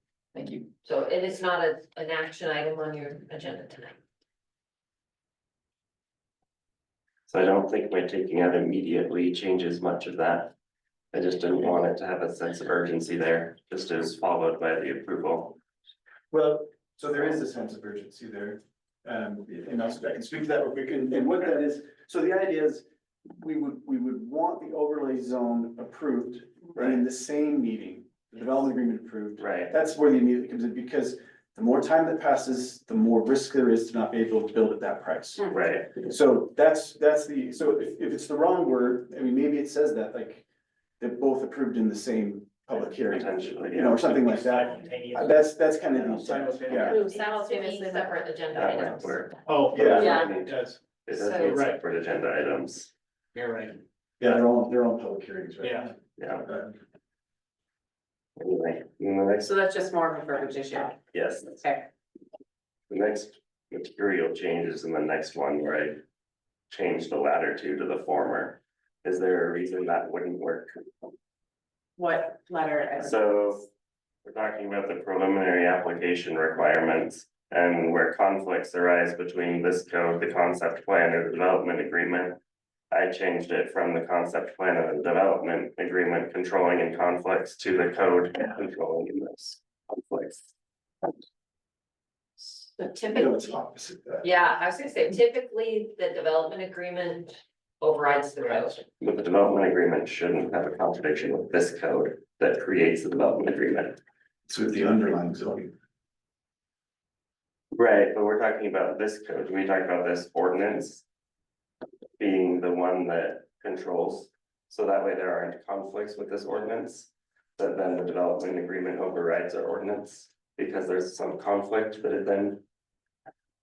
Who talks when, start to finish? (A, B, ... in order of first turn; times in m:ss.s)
0:00.4-0:00.7 A
0:00.8-0:04.0 B
0:07.3-0:10.5 C
0:11.1-0:15.6 C
0:16.3-0:22.8 D
0:23.4-0:40.4 D
0:29.4-0:29.7 C
0:35.5-0:35.9 C
0:41.0-0:47.0 D
0:43.1-0:44.0 C
0:43.9-0:47.0 E
0:46.8-0:48.2 A
0:47.0-0:49.4 B
0:48.5-0:52.9 C
0:49.5-0:51.8 E
0:49.7-0:50.2 D
0:50.0-0:50.3 B
0:51.1-0:51.6 B
0:53.3-0:53.8 E
0:54.2-0:56.7 D
0:55.6-0:55.9 E
0:56.2-0:56.5 C
0:58.4-0:59.5 C
0:59.4-1:01.0 A
1:01.1-1:01.6 C
1:01.6-1:01.9 A
1:02.9-1:06.0 C
1:06.7-1:10.9 C
1:12.0-1:13.2 A
1:13.0-1:13.7 C
1:14.2-1:22.4 C
1:22.9-1:30.5 C
1:32.6-1:33.4 B
1:33.1-1:34.3 D
1:34.2-1:38.8 B
1:39.0-1:44.0 C
1:44.5-1:45.7 D
1:47.7-1:51.0 C
1:52.2-2:02.6 C